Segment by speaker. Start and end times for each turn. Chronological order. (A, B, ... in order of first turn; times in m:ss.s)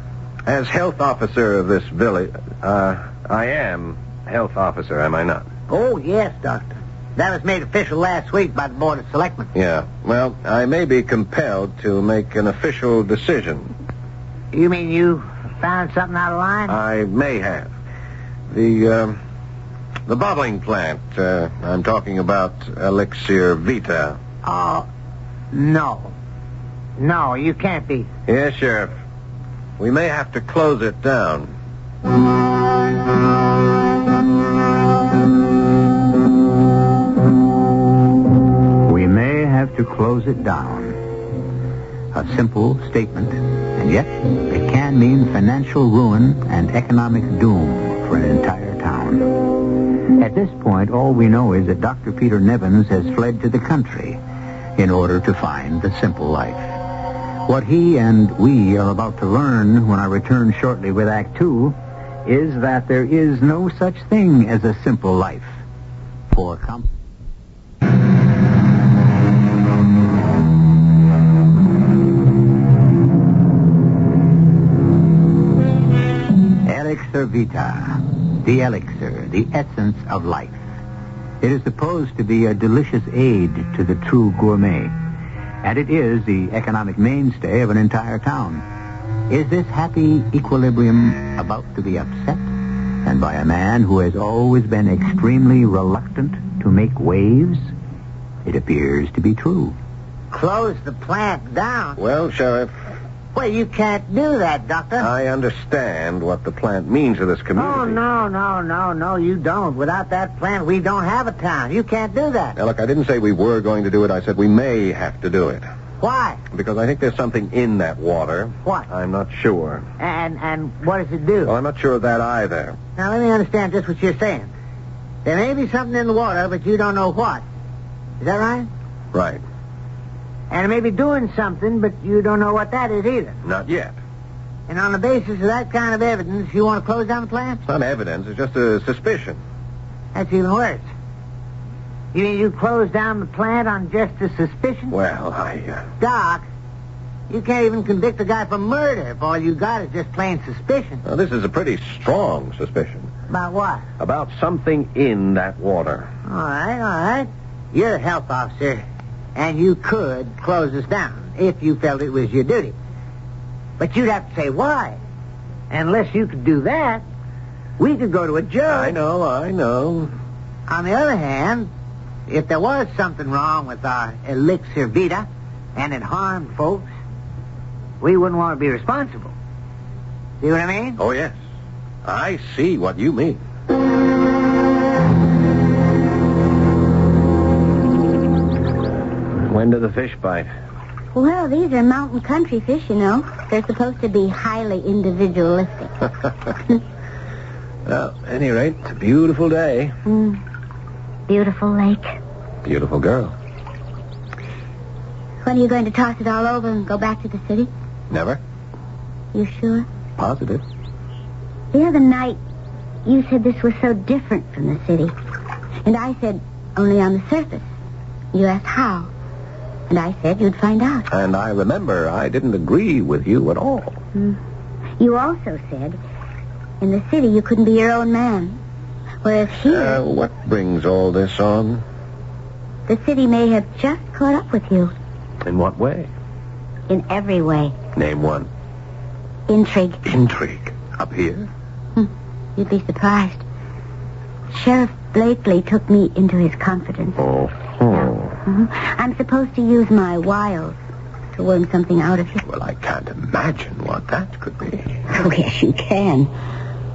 0:00.4-0:05.4 A
0:05.7-0:09.5 B
0:09.5-0:13.7 A
0:14.5-0:16.8 B
0:16.7-0:17.7 A
0:18.5-0:19.2 A
0:20.0-0:24.2 A
0:24.4-0:24.9 B
0:25.5-0:26.1 B
0:27.0-0:28.1 B
0:28.3-0:28.9 A
0:29.8-0:31.5 A
0:38.8-0:41.0 C
0:42.1-0:54.2 C
0:54.8-0:56.8 C
0:57.4-1:05.6 C
1:06.3-1:06.9 C
1:16.6-1:20.6 C
1:21.4-1:24.9 C
1:25.6-1:28.6 C
1:29.3-1:37.7 C
1:38.4-1:39.8 C
1:40.3-1:42.0 B
1:42.0-1:42.7 A
1:43.3-1:45.1 B
1:45.0-1:48.0 A
1:47.6-1:52.6 B
1:52.6-1:55.6 A
1:56.0-1:56.4 B
1:56.5-1:59.8 A
2:00.0-2:01.5 B
2:01.4-2:02.8 A
2:03.0-2:04.5 B
2:05.2-2:07.4 B
2:08.2-2:08.7 B
2:09.1-2:09.4 A
2:10.5-2:13.4 B
2:13.4-2:13.9 A
2:14.7-2:17.6 B
2:17.7-2:19.4 A
2:20.1-2:20.8 B
2:22.1-2:24.9 B
2:24.9-2:25.9 A
2:26.0-2:26.4 B
2:27.3-2:31.0 B
2:31.0-2:33.1 A
2:33.3-2:33.8 B
2:34.0-2:36.1 A
2:36.3-2:38.8 B
2:39.3-2:42.8 B
2:43.8-2:45.0 B
2:45.7-2:47.0 B
2:47.8-2:49.0 B
2:48.7-2:50.1 A
2:50.7-2:51.7 B
2:52.3-2:56.9 B
2:58.0-2:59.3 B
3:00.4-3:01.0 B
3:01.0-3:01.3 A
3:02.0-3:03.4 A
3:09.4-3:10.5 A
3:11.1-3:15.9 D
3:17.8-3:20.0 A
3:20.0-3:20.4 D
3:21.3-3:22.2 D
3:22.6-3:23.3 A
3:25.4-3:27.7 D
3:28.1-3:28.4 A
3:29.3-3:29.9 D
3:30.2-3:30.6 A
3:31.7-3:32.4 D
3:33.0-3:35.1 D
3:35.8-3:37.7 D
3:38.3-3:39.1 D
3:39.9-3:41.1 D
3:41.1-3:44.0 A
3:45.0-3:46.0 D
3:46.8-3:48.6 D
3:49.2-3:50.0 D
3:49.6-3:51.8 A
3:52.9-3:54.9 D
3:55.4-3:56.1 A
3:56.9-3:57.7 D
3:57.9-3:58.5 A
3:59.5-4:00.0 D
4:00.0-4:01.5 A
4:02.0-4:03.4 D
4:04.5-4:07.2 D
4:07.2-4:08.4 A
4:08.4-4:10.8 D
4:11.3-4:12.4 D
4:12.4-4:15.0 A
4:15.1-4:16.3 D